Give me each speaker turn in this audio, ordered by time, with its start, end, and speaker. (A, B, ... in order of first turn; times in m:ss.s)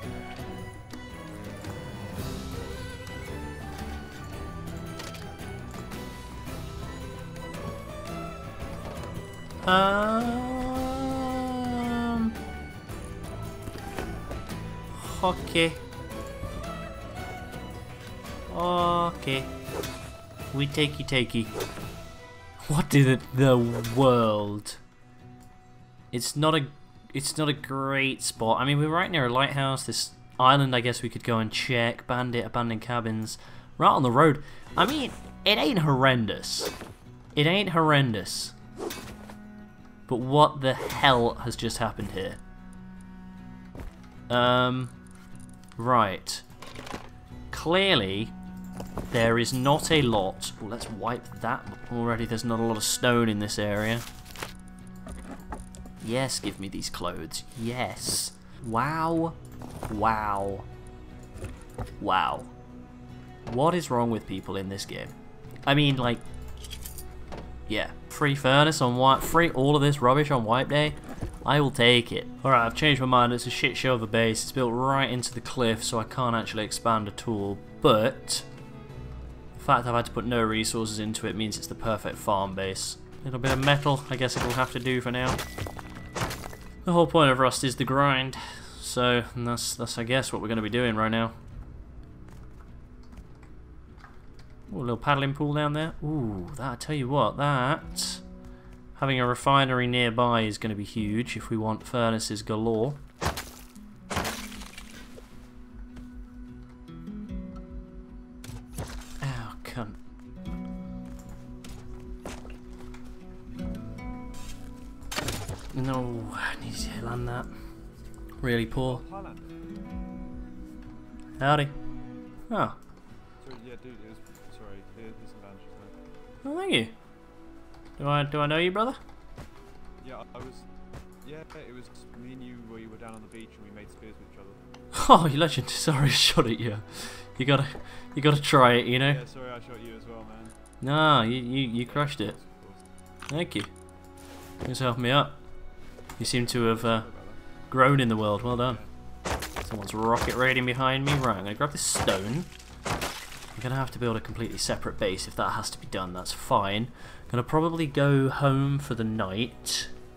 0:09.6-0:12.3 A
0:14.9-0:15.8 A
0:18.5-0:19.5 A
0:20.5-0:21.5 A
0:22.7-0:24.8 A
0:26.1-0:36.7 A
0:37.4-0:38.6 A
0:40.1-0:42.4 A
0:44.3-0:45.0 A
0:45.8-0:46.4 A
0:47.5-0:48.3 A
0:49.1-0:54.0 A
0:56.0-1:00.7 A
1:02.0-1:02.5 A
1:03.4-1:05.2 A
1:05.7-1:06.2 A
1:07.7-1:18.5 A
1:19.6-1:25.4 A
1:26.8-1:31.4 A
1:34.7-1:38.2 A
1:39.0-1:43.0 A
1:49.2-1:50.0 A
1:55.7-1:57.5 A
1:58.4-1:59.0 A
1:58.7-1:59.6 B
2:01.4-2:01.7 A
2:02.5-2:02.8 A
2:03.4-2:06.0 B
2:06.4-2:06.9 A
2:08.0-2:09.0 A
2:10.0-2:10.7 B
2:11.2-2:14.6 B
2:14.9-2:19.2 A
2:19.0-2:20.6 B
2:20.8-2:22.4 A
2:21.8-2:22.8 B
2:23.3-2:23.7 A
2:24.6-2:25.4 A
2:26.2-2:27.1 A
2:26.5-2:27.4 B
2:27.7-2:28.8 A
2:28.5-2:28.9 B
2:29.6-2:32.5 A
2:33.6-2:39.9 A